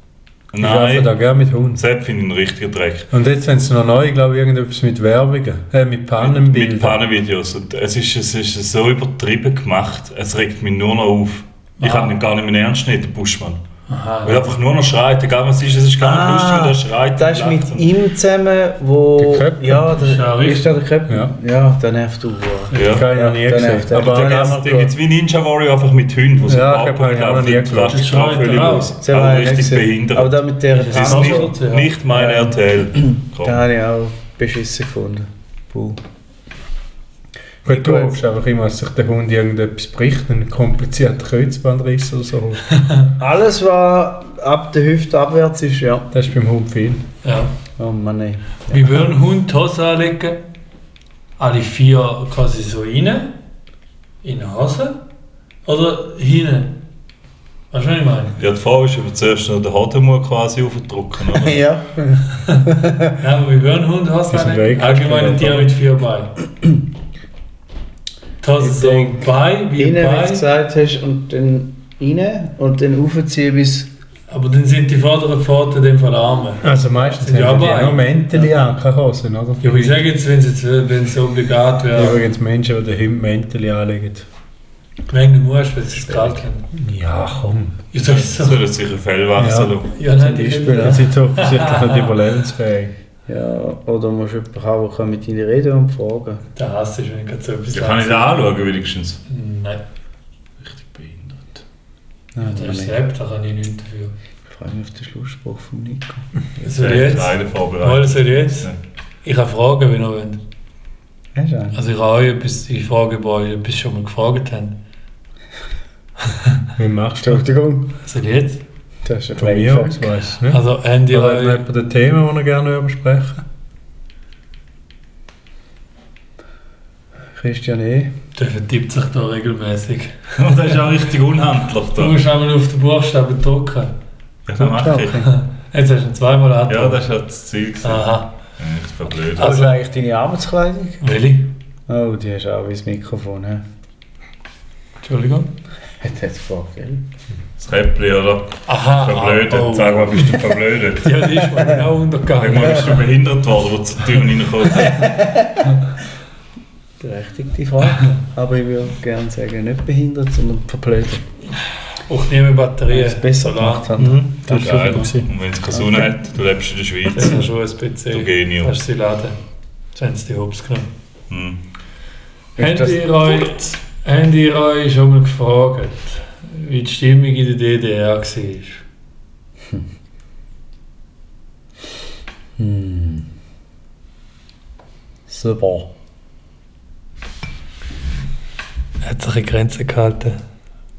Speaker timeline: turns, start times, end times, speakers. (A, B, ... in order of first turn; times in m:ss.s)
0:00.5-0:01.2 A
0:00.6-0:01.8 B
0:01.7-0:03.1 A
0:03.1-0:07.0 B
0:06.2-0:13.6 A
0:11.8-0:12.1 C
0:13.9-0:14.6 C
0:14.2-0:17.9 A
0:16.0-0:24.9 D
0:19.2-0:19.9 B
0:19.9-0:20.8 C
0:21.1-0:21.3 B
0:22.7-0:23.0 C
0:22.7-0:23.0 A
0:22.8-0:24.7 B
0:23.9-0:33.6 A
0:26.4-0:28.9 B
0:27.9-0:28.9 C
0:29.0-0:31.5 D
0:30.7-0:31.9 C
0:32.1-0:32.6 D
0:33.4-0:36.0 D
0:37.6-0:42.6 B
0:37.6-0:38.1 D
0:42.7-0:43.1 C
0:43.2-0:46.1 D
0:46.1-0:47.0 B
0:47.2-0:47.5 C
0:47.8-0:49.0 D
0:48.7-0:50.4 C
0:51.4-0:53.3 C
0:54.2-0:55.0 C
0:55.6-0:56.8 C
0:57.7-0:58.4 C
0:58.4-1:01.6 A
1:01.3-1:03.0 D
1:03.2-1:06.3 C
1:04.3-1:05.8 B
1:08.4-1:10.4 C
1:08.6-1:13.9 D
1:14.3-1:18.5 C
1:16.6-1:20.0 B
1:19.6-1:22.2 C
1:21.9-1:24.3 B
1:25.1-1:26.7 C
1:26.1-1:26.4 D
1:26.7-1:27.8 B
1:27.9-1:28.6 C
1:28.0-1:29.9 A
1:29.4-1:29.8 B
1:29.9-1:32.2 C
1:30.0-1:31.0 D
1:30.7-1:32.9 B
1:33.3-1:36.4 D
1:36.6-1:38.6 C
1:37.7-1:39.2 A
1:39.3-1:39.8 C
1:40.6-1:41.6 A
1:42.3-1:43.0 D
1:42.4-1:44.1 C
1:44.5-1:46.3 D
1:46.6-1:48.7 C
1:46.7-1:48.8 A
1:49.2-1:50.4 C
1:51.3-1:51.8 D
1:51.7-1:54.8 C
1:56.8-1:57.4 B
1:57.2-1:57.9 D
1:58.0-1:58.6 C
1:59.0-2:00.1 D
1:59.4-2:03.4 B
2:00.5-2:01.6 C
2:07.4-2:08.1 D
2:08.4-2:10.7 C
2:10.4-2:12.2 A
2:12.0-2:13.9 C
2:14.4-2:15.3 A
2:14.6-2:15.2 D
2:14.6-2:15.0 B
2:15.2-2:17.0 C
2:16.7-2:19.5 A
2:17.8-2:18.3 C
2:19.3-2:21.0 D
2:19.4-2:19.7 C
2:21.0-2:21.5 C
2:21.9-2:23.6 D
2:25.0-2:25.5 C
2:26.0-2:27.0 D
2:27.6-2:31.6 A
2:28.7-2:30.4 C
2:31.0-2:33.0 C
2:32.4-2:35.1 A
2:34.8-2:35.5 D
2:37.0-2:41.2 D
2:42.1-2:43.9 C
2:42.9-2:45.1 D
2:44.0-2:45.3 B
2:44.4-2:47.4 A
2:47.1-2:49.4 C
2:48.1-2:48.7 A
2:49.9-2:50.9 C
2:51.3-2:51.6 A
2:52.6-2:53.4 D
2:52.6-2:58.8 C
3:02.6-3:03.3 D
3:05.3-3:05.9 D
3:09.0-3:10.4 C